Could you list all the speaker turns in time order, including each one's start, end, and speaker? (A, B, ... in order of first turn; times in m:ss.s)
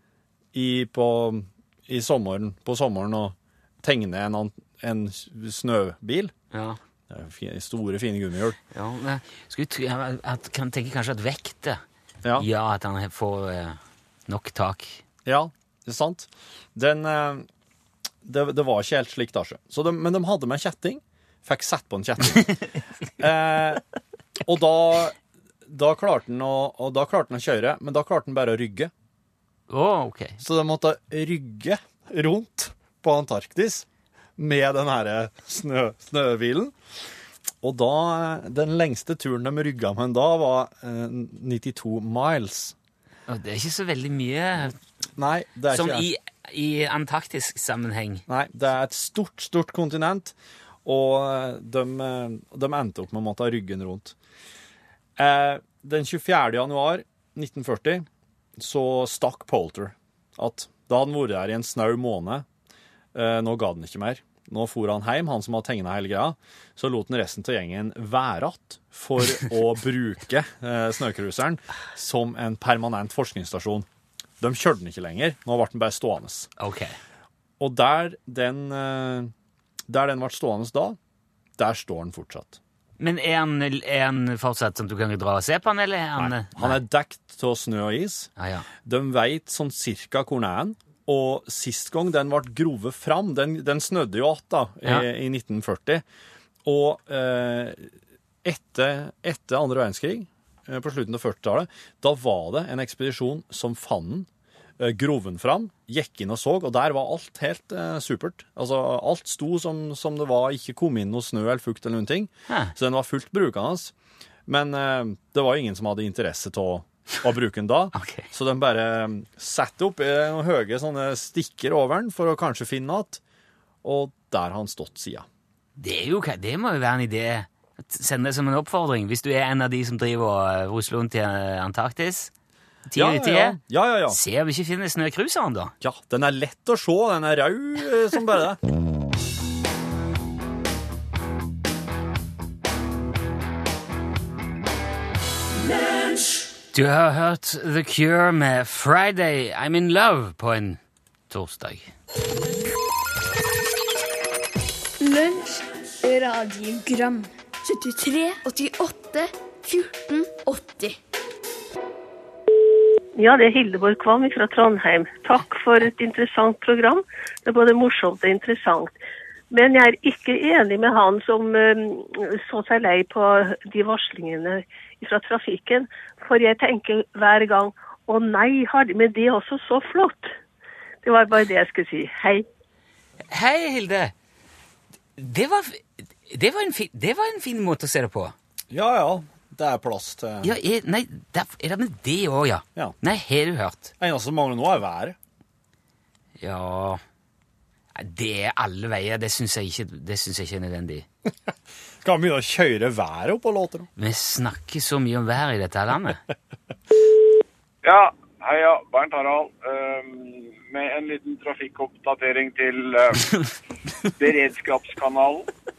0:00.5-0:06.3 A
0:06.5-0:06.8 B
0:07.1-0:08.6 A
0:08.7-0:11.8 B
0:12.4-0:15.0 B
0:15.2-0:17.5 A
0:18.2-0:22.6 A
0:23.2-0:23.8 A
0:24.4-0:25.2 A
0:25.7-0:28.9 A
0:29.7-0:30.4 B
0:30.4-0:33.8 A
0:34.4-0:36.7 A
0:37.6-0:42.7 A
0:43.3-0:44.8 B
0:45.2-0:46.1 A
0:45.7-0:48.2 B
0:48.3-0:54.2 A
0:55.2-0:58.1 A
0:58.6-1:02.4 A
1:03.1-1:13.9 A
1:14.4-1:16.5 A
1:16.6-1:17.0 B
1:17.6-1:19.3 A
1:19.9-1:21.0 A
1:21.6-1:22.6 A
1:23.0-1:26.8 B
1:26.2-1:28.3 A
1:28.4-1:28.7 B
1:28.8-1:36.0 A
1:36.6-1:37.9 A
1:38.4-1:44.3 A
1:44.8-1:53.9 A
1:52.5-1:52.7 B
1:54.5-2:03.2 A
1:57.9-1:58.3 B
2:03.8-2:05.2 A
2:05.8-2:12.3 B
2:12.9-2:15.7 B
2:12.9-2:14.2 A
2:15.8-2:18.6 A
2:26.7-2:31.9 B
2:35.0-2:41.0 C
2:43.2-2:49.0 D
2:49.5-3:00.3 D
3:01.0-3:02.4 D
3:03.3-3:04.1 B
3:05.2-3:08.4 B
3:08.7-3:10.5 A
3:10.4-3:13.9 B
3:14.0-3:15.2 A
3:16.4-3:17.0 B
3:17.9-3:21.0 B
3:22.0-3:23.9 A
3:24.0-3:26.2 B
3:27.8-3:33.2 E
3:34.2-3:35.5 E